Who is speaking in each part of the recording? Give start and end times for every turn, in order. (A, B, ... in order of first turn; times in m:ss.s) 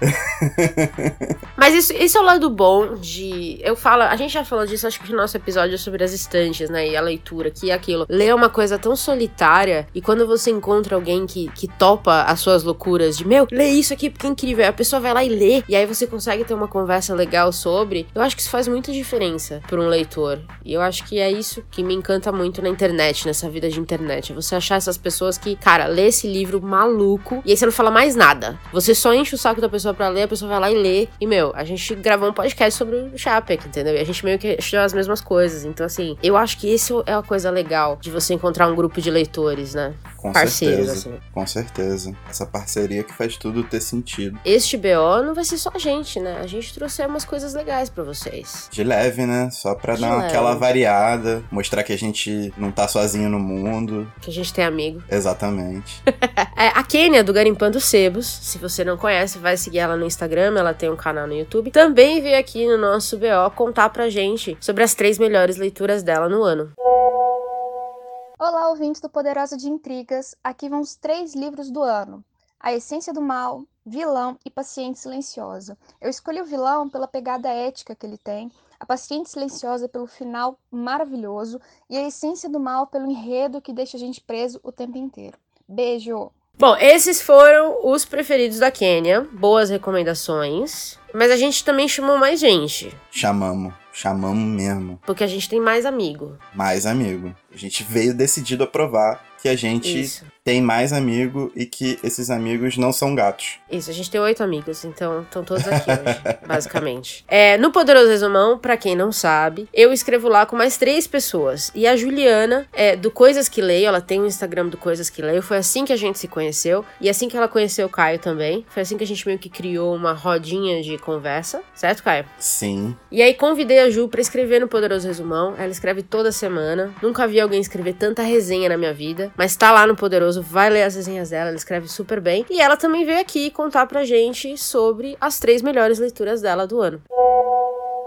0:00.4-0:01.3 A
0:01.6-0:41.2 B
0:40.2-0:44.4 A
0:44.4-0:48.7 B
0:48.7-0:54.1 A
0:49.9-0:50.8 B
0:54.2-0:55.1 B
0:55.1-0:56.0 A
0:56.6-1:06.7 B
1:08.4-1:26.3 C
1:26.6-1:33.0 B
1:33.1-1:35.0 A
1:35.1-1:36.4 B
1:36.5-1:43.6 A
1:39.8-1:40.3 B
1:43.7-2:02.3 B
1:45.6-1:46.7 A
2:02.4-2:03.0 A
2:03.1-2:17.0 B